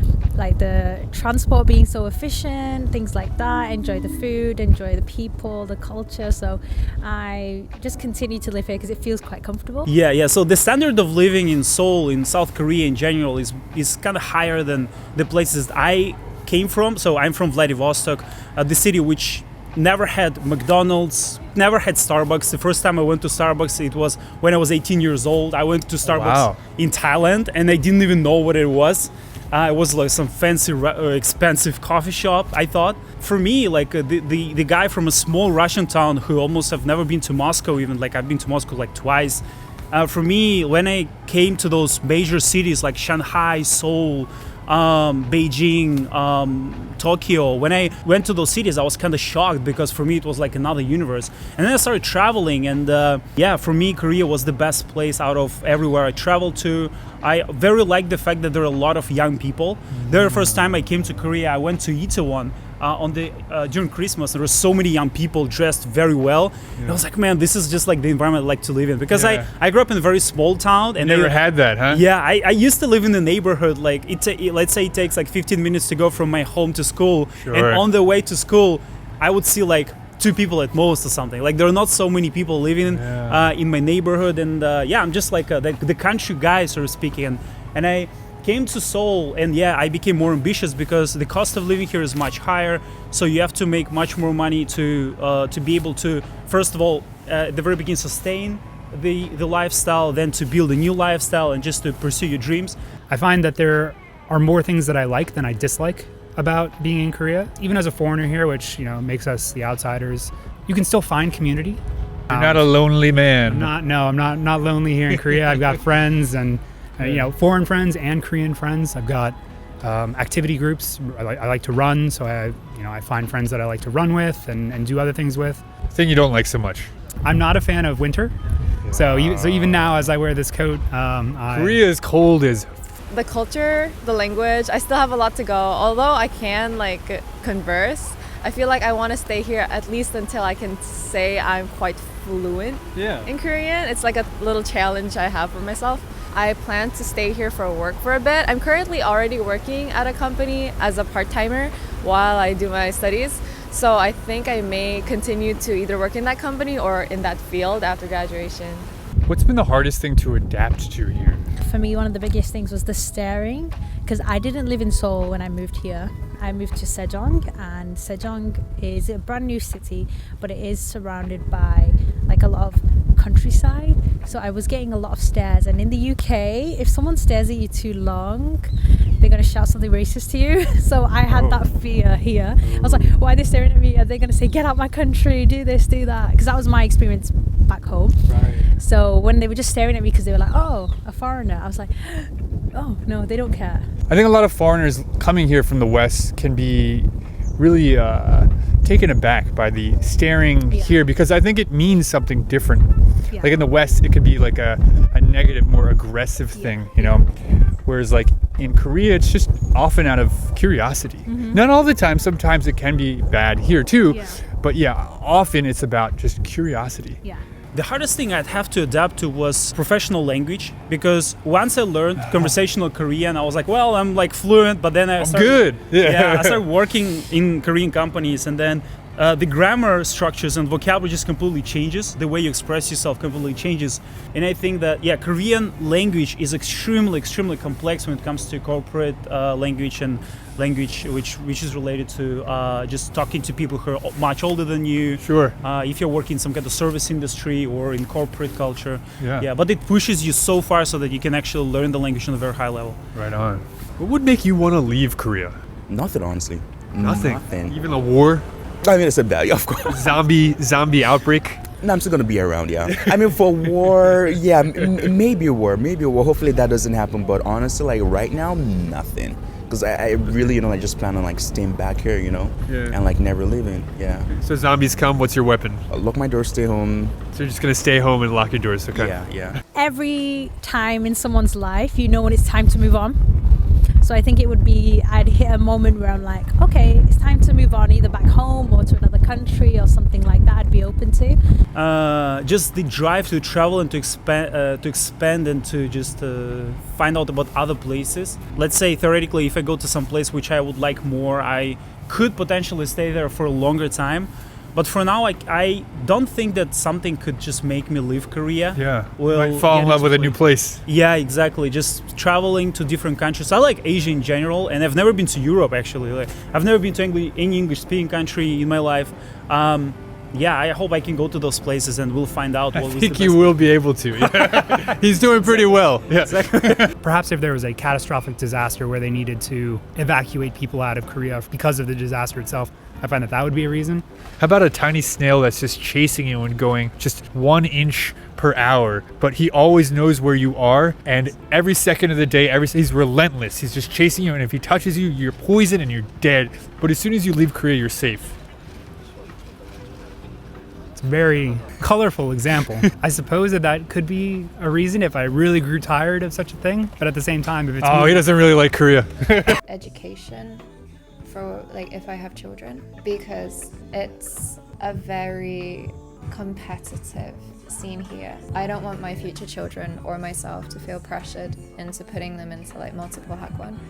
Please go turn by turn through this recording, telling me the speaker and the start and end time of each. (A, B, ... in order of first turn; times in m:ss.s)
0:00.4-0:09.9 A
0:09.8-1:42.8 B
0:26.0-0:26.6 C
1:00.1-1:00.5 C
1:09.1-1:09.5 C
1:11.0-1:12.0 C
1:17.4-1:17.8 C
1:22.8-1:23.4 C
1:43.1-1:52.7 D
1:52.3-1:53.7 C
1:53.4-2:05.6 D
1:57.0-1:57.3 C
2:05.9-2:06.9 C
2:07.2-2:08.3 D
2:08.8-2:10.0 C
2:08.9-2:11.8 D
2:11.5-2:12.7 C
2:13.1-2:38.9 E
2:23.0-2:23.3 C
2:39.2-2:41.4 C
2:41.6-3:13.9 A
3:01.3-3:01.6 C
3:02.6-3:03.1 C
3:08.3-3:08.7 C
3:14.1-3:27.3 C
3:20.7-3:21.1 A
3:23.3-3:23.7 A
3:26.5-3:27.2 A
3:27.8-3:37.2 C
3:31.2-3:31.6 A
3:34.0-3:34.5 A
3:37.7-4:13.0 B
3:42.2-3:42.5 C
3:45.2-3:46.6 C
4:05.2-4:05.6 C
4:09.2-4:09.4 C
4:13.1-4:15.6 C
4:15.9-4:17.8 F
4:17.0-4:18.4 C
4:18.8-4:20.2 F
4:19.9-4:21.6 C
4:21.8-4:34.3 F
4:32.7-4:32.9 C
4:34.3-4:35.8 C
4:35.9-4:37.2 F
4:37.3-4:39.2 C
4:38.9-4:39.6 F
4:39.7-4:43.5 A
4:44.0-4:51.4 A
4:51.7-5:23.7 B
5:08.7-5:10.8 C
5:22.7-5:26.9 C
5:25.4-5:26.9 B
5:27.0-5:34.0 D
5:34.4-5:48.4 C
5:50.9-5:58.4 D
5:57.8-5:59.6 C
5:59.6-6:00.6 G
6:01.2-6:13.8 G